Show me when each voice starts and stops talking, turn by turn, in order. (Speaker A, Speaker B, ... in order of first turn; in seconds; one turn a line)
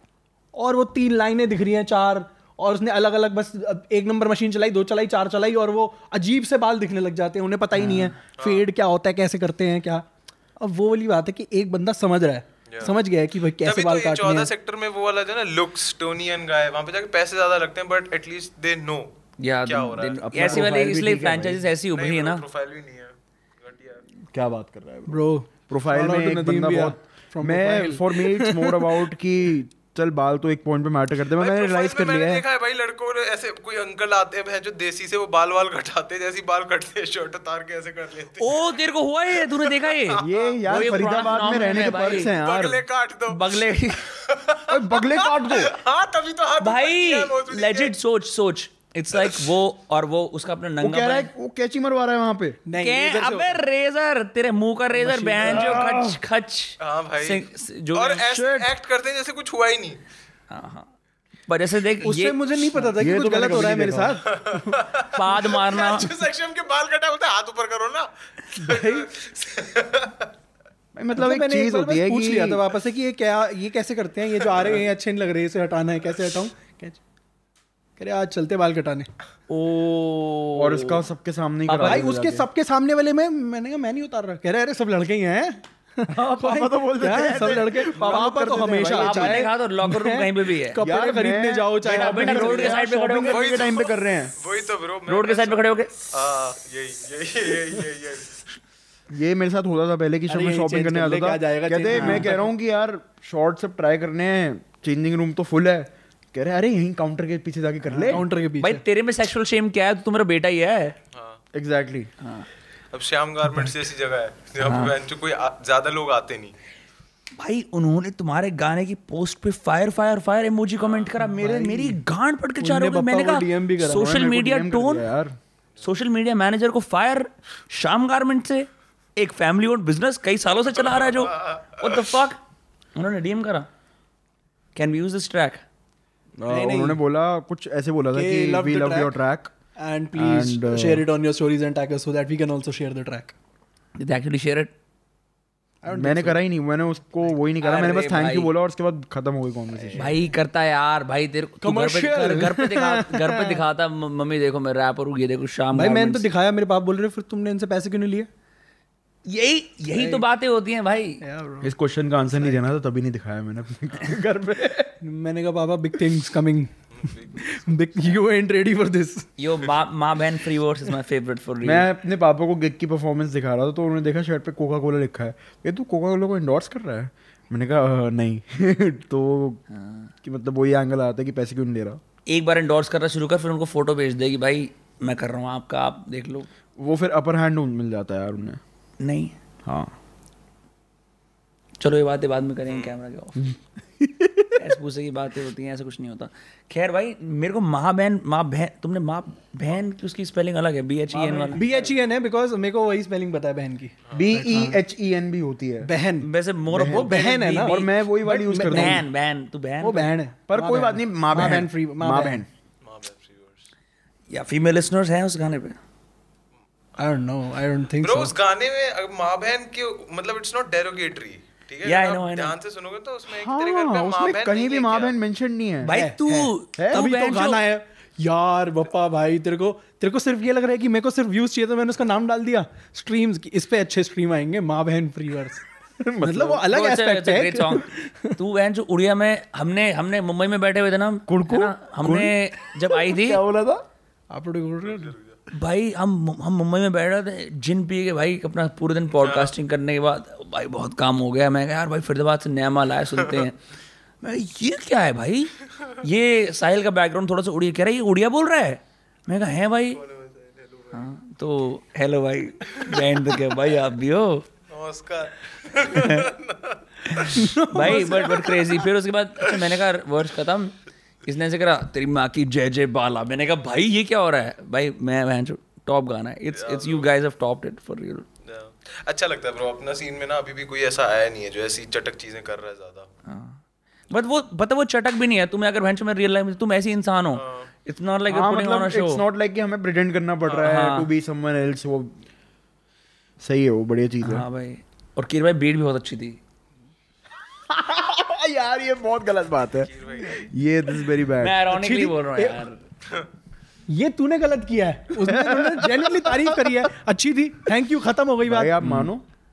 Speaker A: 0.5-10.1
Speaker B: 7.8-8.1
Speaker C: 8.4-8.7
Speaker A: 10.6-14.5
Speaker C: 12.7-12.9
Speaker C: 13.6-20.7
Speaker B: 19.4-22.4
Speaker D: 20.2-21.7
Speaker C: 21.9-24.0
Speaker D: 24.3-32.4
Speaker A: 25.1-29.0
Speaker C: 31.4-38.7
Speaker B: 38.4-42.3
Speaker C: 39.4-40.9
Speaker D: 40.2-42.8
Speaker C: 41.4-48.0
Speaker B: 43.3-44.0
Speaker D: 44.7-45.7
Speaker B: 46.6-51.3
Speaker D: 50.8-52.6
Speaker A: 52.7-53.6
Speaker B: 52.8-58.5
Speaker A: 54.9-55.8
Speaker D: 55.4-56.2
Speaker C: 56.8-60.0
Speaker B: 60.5-60.9
Speaker B: 61.5-62.9
Speaker A: 62.0-64.8
Speaker D: 63.0-64.2
Speaker C: 64.3-70.3
Speaker B: 65.1-66.1
Speaker A: 68.5-69.2
Speaker D: 71.0-72.7
Speaker A: 71.2-77.0
Speaker A: 78.0-79.1
Speaker B: 79.5-81.1
Speaker D: 80.6-82.5
Speaker B: 81.7-82.1
Speaker A: 81.8-93.3
Speaker D: 86.1-89.5
Speaker B: 88.9-90.8
Speaker D: 90.8-94.3
Speaker B: 91.8-93.4
Speaker C: 93.3-98.4
Speaker B: 95.1-95.9
Speaker D: 99.1-108.3
Speaker A: 100.3-102.4
Speaker B: 101.9-102.4
Speaker A: 107.9-108.8
Speaker B: 108.1-111.0
Speaker C: 111.1-111.4
Speaker D: 111.5-112.1
Speaker B: 112.2-112.5
Speaker C: 112.9-116.5
Speaker B: 114.6-115.0
Speaker B: 117.4-125.1
Speaker C: 120.8-121.1
Speaker A: 121.2-122.0
Speaker A: 122.6-124.1
Speaker D: 123.8-125.4
Speaker B: 125.8-132.4
Speaker C: 130.8-131.9
Speaker B: 132.9-133.7
Speaker B: 134.8-135.6
Speaker D: 136.4-139.5
Speaker A: 136.4-137.0
Speaker A: 138.1-139.1
Speaker A: 139.8-143.3
Speaker D: 140.2-141.1
Speaker B: 144.0-144.7
Speaker A: 145.8-146.4
Speaker D: 145.9-150.2
Speaker B: 147.6-148.5
Speaker B: 149.9-156.3
Speaker A: 151.6-153.0
Speaker D: 152.4-153.6
Speaker A: 155.7-158.3
Speaker B: 159.3-161.2
Speaker A: 159.9-160.2
Speaker A: 161.2-161.7
Speaker D: 161.6-165.0
Speaker A: 165.0-166.7
Speaker C: 166.9-168.2
Speaker A: 167.4-169.3
Speaker B: 169.4-171.9
Speaker D: 171.6-179.6
Speaker B: 179.7-180.1
Speaker D: 180.2-182.0
Speaker B: 182.3-186.5
Speaker D: 186.8-188.6
Speaker B: 189.0-189.3
Speaker D: 189.7-189.9
Speaker B: 191.8-193.5
Speaker C: 192.7-192.9
Speaker D: 193.4-194.6
Speaker B: 194.6-201.6
Speaker D: 201.1-201.9
Speaker A: 201.5-204.8
Speaker D: 204.1-205.9
Speaker A: 205.8-206.3
Speaker B: 206.2-207.9
Speaker D: 206.7-209.0
Speaker A: 206.8-209.1
Speaker B: 208.7-210.1
Speaker A: 209.8-212.4
Speaker D: 210.5-212.5
Speaker C: 212.8-213.7
Speaker B: 214.3-215.8
Speaker A: 217.0-218.3
Speaker C: 218.0-225.2
Speaker B: 221.8-222.6
Speaker D: 223.3-226.0
Speaker B: 225.8-227.6
Speaker A: 225.9-235.7
Speaker D: 226.8-227.1
Speaker D: 236.0-236.7
Speaker A: 236.2-238.4
Speaker B: 236.7-243.4
Speaker D: 241.3-243.8
Speaker A: 244.3-245.1
Speaker C: 244.8-245.4
Speaker B: 245.5-253.6
Speaker C: 249.2-249.5
Speaker B: 254.2-260.0
Speaker C: 259.9-261.1
Speaker B: 260.9-264.5
Speaker C: 264.7-267.5
Speaker B: 265.9-266.3
Speaker B: 267.1-278.3
Speaker A: 267.2-268.8
Speaker C: 276.5-277.1
Speaker C: 278.4-283.1
Speaker B: 283.3-289.2
Speaker C: 287.3-287.7
Speaker D: 288.3-292.2
Speaker C: 290.5-290.8
Speaker B: 290.6-291.1
Speaker D: 293.4-294.4
Speaker B: 294.2-296.4
Speaker D: 297.7-301.6
Speaker C: 299.9-300.4
Speaker B: 301.4-302.8
Speaker A: 301.7-302.6
Speaker A: 303.9-308.8
Speaker D: 305.2-306.9
Speaker D: 308.4-309.2
Speaker B: 308.8-309.1